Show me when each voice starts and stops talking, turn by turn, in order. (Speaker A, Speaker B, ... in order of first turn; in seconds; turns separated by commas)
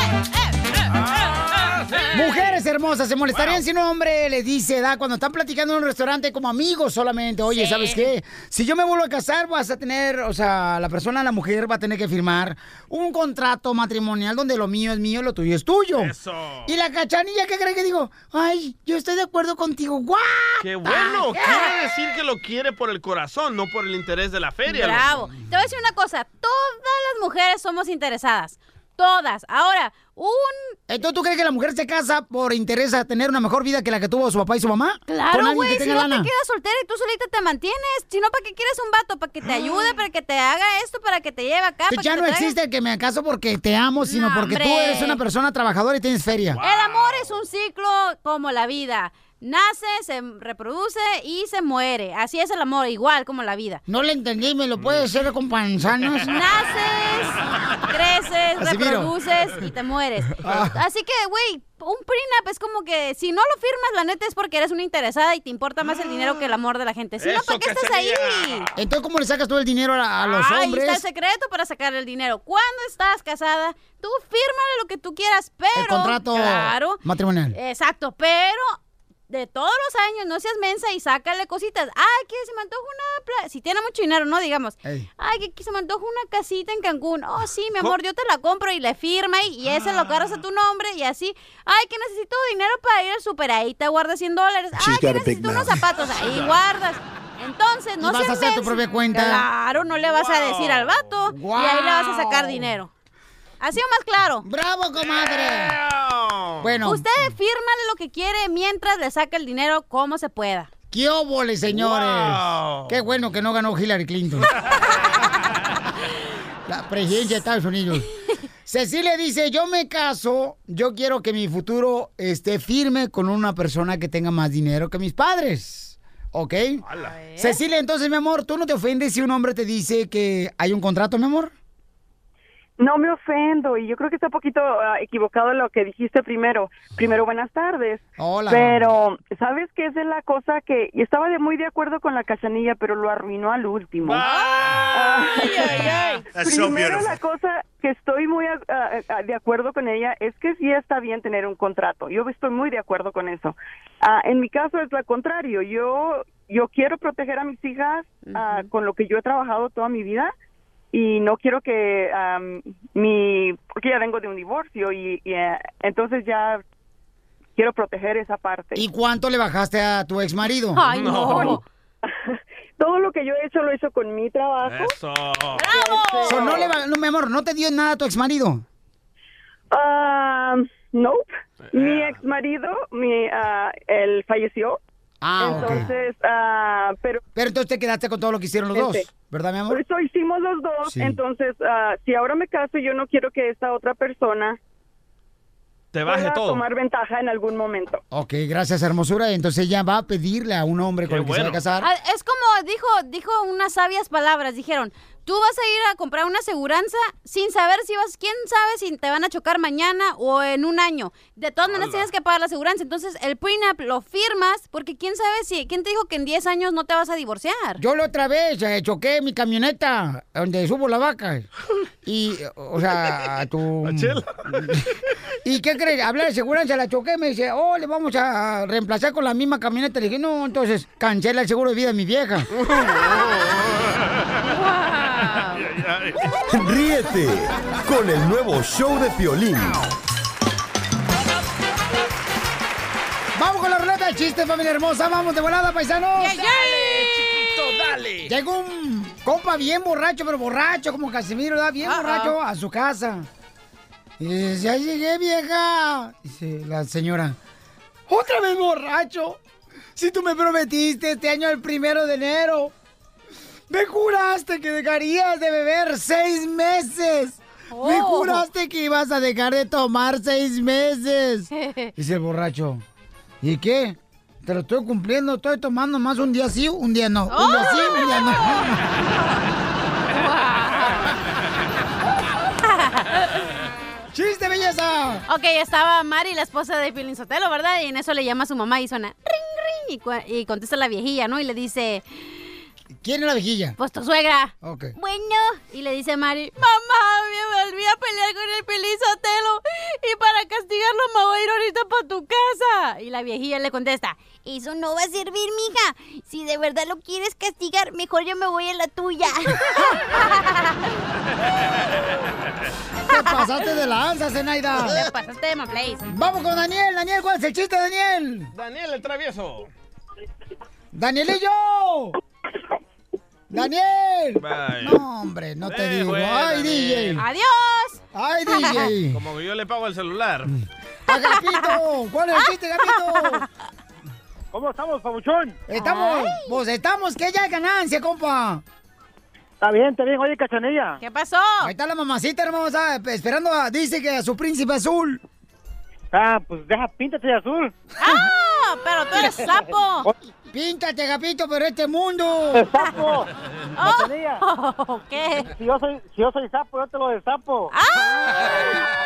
Speaker A: 1.0-2.2, Speaker B: 2.1-16.1, Speaker A: 3.3-3.6, Speaker C: 7.5-8.1, Speaker A: 15.9-16.7, Speaker B: 16.6-21.7, Speaker A: 20.6-25.1, Speaker C: 24.7-30.8, Speaker B: 30.9-36.3, Speaker C: 35.1-42.5, Speaker B: 41.9-46.6, Speaker C: 44.0-45.2, Speaker A: 46.5-47.3, Speaker C: 46.6-53.8, Speaker B: 53.9-56.4, Speaker A: 54.8-55.1, Speaker C: 56.2-68.7, Speaker B: 58.6-59.1, Speaker B: 60.4-60.8, Speaker A: 67.2-68.7, Speaker B: 68.8-71.0, Speaker C: 70.2-77.0, Speaker B: 75.7-77.6, Speaker C: 77.5-102.9, Speaker A: 96.2-96.6, Speaker B: 98.0-99.5, Speaker A: 99.8-101.1, Speaker B: 101.2-102.8, Speaker C: 103.6-104.4, Speaker B: 104.4-105.8, Speaker A: 105.0-106.7, Speaker B: 106.6-107.3, Speaker C: 106.8-110.7, Speaker B: 110.9-114.5, Speaker A: 111.7-113.0, Speaker B: 116.7-118.1, Speaker B: 118.7-131.5, Speaker A: 126.8-127.1, Speaker C: 127.0-127.6, Speaker D: 132.8-144.3, Speaker B: 138.2-138.8, Speaker A: 144.0-146.8, Speaker C: 144.2-144.5, Speaker D: 144.9-160.3, Speaker C: 145.4-146.2, Speaker C: 158.2-158.7, Speaker D: 160.9-166.6, Speaker D: 167.6-168.8, Speaker B: 168.8-170.8, Speaker C: 170.7-171.6, Speaker A: 170.9-171.6, Speaker D: 171.3-171.5, Speaker D: 172.1-175.0, Speaker A: 174.6-175.8, Speaker C: 175.6-176.7, Speaker D: 175.6-176.7, Speaker B: 176.2-178.6, Speaker D: 179.7-184.8, Speaker A: 181.7-182.2, Speaker B: 185.2-185.9, Speaker D: 185.4-187.2, Speaker B: 187.3-189.8, Speaker D: 188.7-189.1, Speaker D: 189.7-194.6, Speaker B: 190.9-191.2, Speaker A: 195.9-196.6, Speaker D: 196.0-198.0, Speaker B: 198.1-201.9, Speaker A: 201.1-201.6, Speaker C: 201.8-217.8, Speaker A: 211.7-212.1, Speaker B: 217.8-221.5, Speaker B: 222.0-224.8, Speaker A: 223.8-224.4, Speaker B: 225.4-232.5, Speaker A: 232.5-234.0, Speaker C: 234.5-235.7, Speaker A: 235.6-236.2, Speaker E: 236.5-239.8, Speaker B: 243.3-246.4, Speaker C: 246.2-247.4, Speaker A: 246.4-248.3, Speaker B: 248.2-253.3, Speaker C: 251.8-252.4, Speaker B: 254.2-257.4, Speaker B: 258.1-259.4, Speaker B: 259.9-262.7, Speaker B: 263.7-272.8, Speaker C: 267.7-268.5, Speaker C: 271.5-271.9, Speaker B: 273.4-278.9, Speaker C: 277.3-278.7, Speaker C: 280.1-281.1, Speaker C: 282.7-283.2, Speaker B: 284.1-285.2, Speaker C: 285.3-292.5, Speaker B: 293.0-293.8, Speaker C: 293.8-310.9, Speaker B: 294.6-294.9, Speaker B: 313.1-315.1, Speaker C: 313.1-313.5, Speaker C: 314.7-316.1, Speaker B: 316.1-318.5, Speaker A: 318.5-319.7, Speaker B: 320.9-322.2, Speaker B: 323.5-327.2, Speaker A: 324.4-325.0, Speaker A: 325.6-327.2, Speaker C: 327.1-328.9, Speaker B: 328.1-329.2, Speaker A: 329.1-330.5, Speaker B: 331.1-333.4, Speaker C: 331.1-331.8, Speaker C: 332.3-333.5, Speaker F: 334.5-335.6, Speaker B: 335.7-338.6, Speaker C: 335.7-336.6, Speaker F: 339.6-341.0, Speaker C: 341.0-341.7, Speaker B: 341.6-345.2, Speaker F: 346.1-347.8, Speaker C: 348.0-350.1, Speaker F: 349.2-350.1, Speaker B: 350.5-352.7, Speaker F: 352.5-353.3, Speaker C: 353.8-355.5, Speaker F: 353.8-354.4, Speaker F: 355.4-357.7, Speaker C: 357.7-358.9